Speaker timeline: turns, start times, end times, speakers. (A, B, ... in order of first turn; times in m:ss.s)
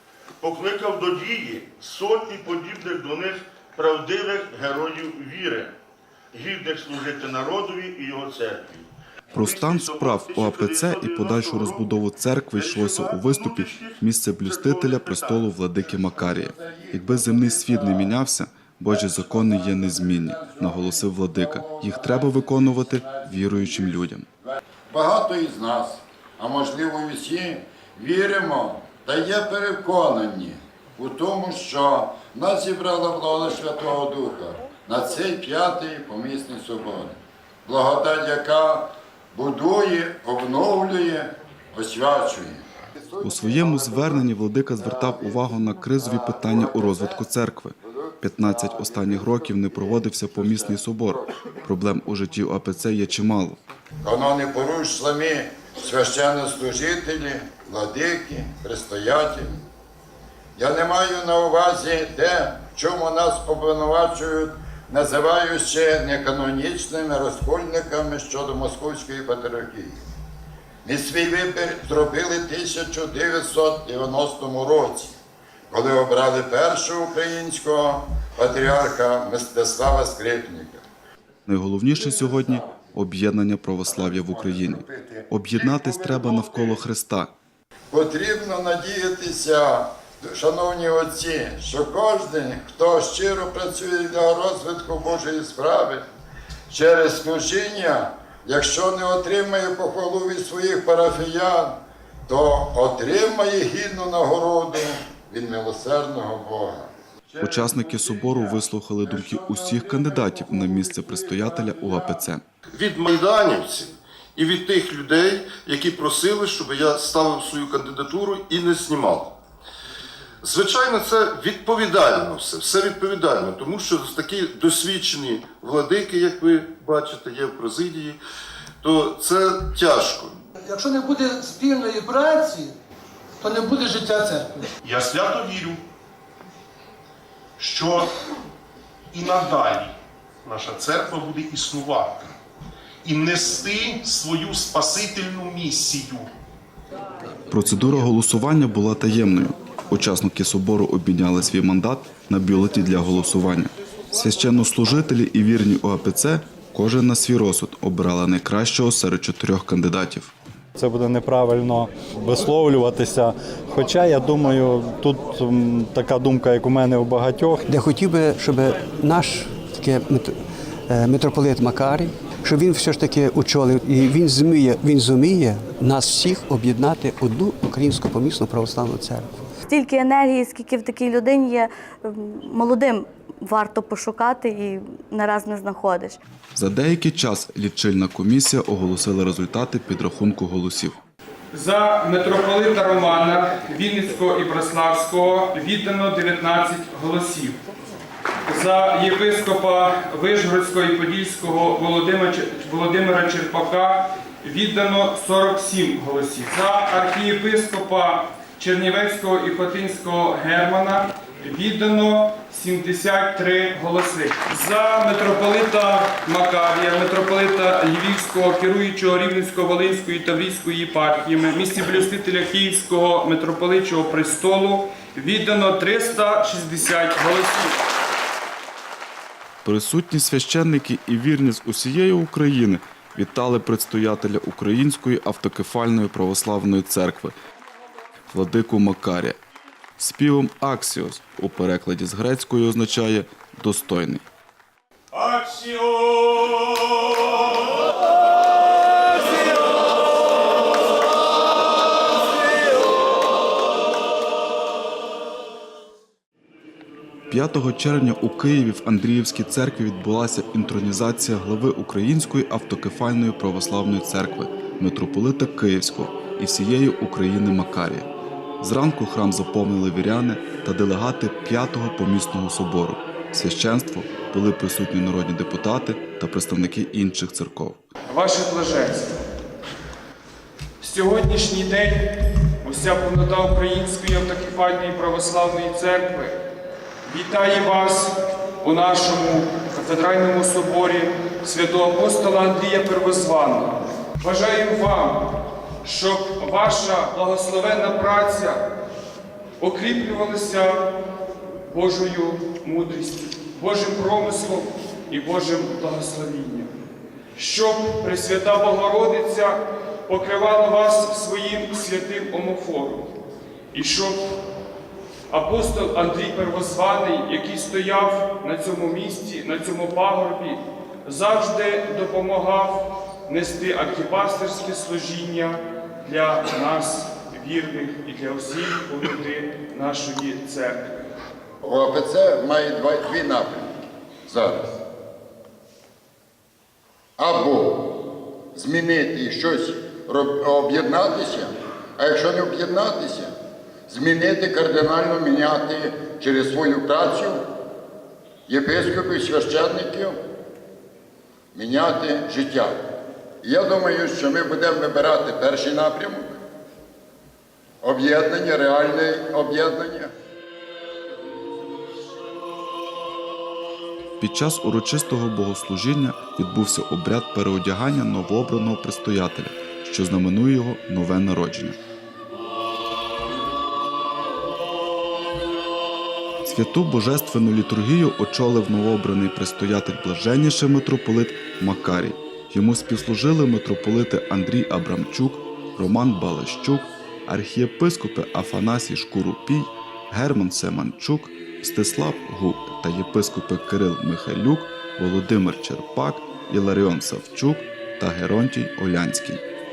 0:00.4-0:05.7 A
0:06.3-0:12.0 A
0:09.3-0:24.2 B
0:12.5-0:15.5 A
0:15.9-0:18.1 C
0:18.9-0:23.9 C
0:24.4-0:44.2 C
0:43.2-0:53.6 B
0:44.8-0:47.2 C
0:47.9-0:50.7 C
0:54.0-0:59.6 C
1:00.6-1:10.0 C
1:10.8-1:15.1 C
1:15.7-1:20.8 C
1:21.5-1:27.3 B
1:24.3-1:25.2 C
1:27.9-1:36.0 C
1:36.7-1:48.5 C
1:47.4-1:52.4 B
1:49.1-1:52.0 C
1:52.7-1:59.4 D
2:00.4-2:08.2 D
2:08.8-2:10.3 D
2:10.6-2:12.7 E
2:13.4-2:14.7 E
2:14.8-2:15.8 F
2:17.6-2:18.1 F
2:19.1-2:22.3 F
2:23.0-2:26.3 F
2:27.5-2:40.3 B
2:40.8-2:47.6 G
2:47.7-2:50.4 H
2:50.9-2:59.3 H
2:59.7-3:06.2 I
3:06.5-3:11.0 B
3:11.5-3:17.6 J
3:18.5-3:47.8 J
3:49.6-3:57.4 B
3:58.3-3:59.4 B
4:00.0-4:04.2 B
4:17.3-4:37.8 B
4:38.1-4:39.2 J
4:40.8-4:42.1 J
4:42.6-4:46.4 J
4:47.0-4:55.2 J
4:55.8-4:58.6 J
4:59.6-5:00.8 J
5:01.7-5:06.7 J
5:07.3-5:13.1 J
5:13.7-5:14.2 J
5:15.3-5:31.1 J
5:31.6-5:33.7 C
5:34.3-5:34.7 C
5:37.2-5:37.9 C
5:38.5-5:43.3 C
5:43.9-5:47.4 C
5:48.5-5:50.2 C
5:51.5-5:52.8 C
5:53.4-5:56.4 C
5:57.8-6:00.1 C
6:04.2-6:11.8 B
6:16.4-6:39.4 B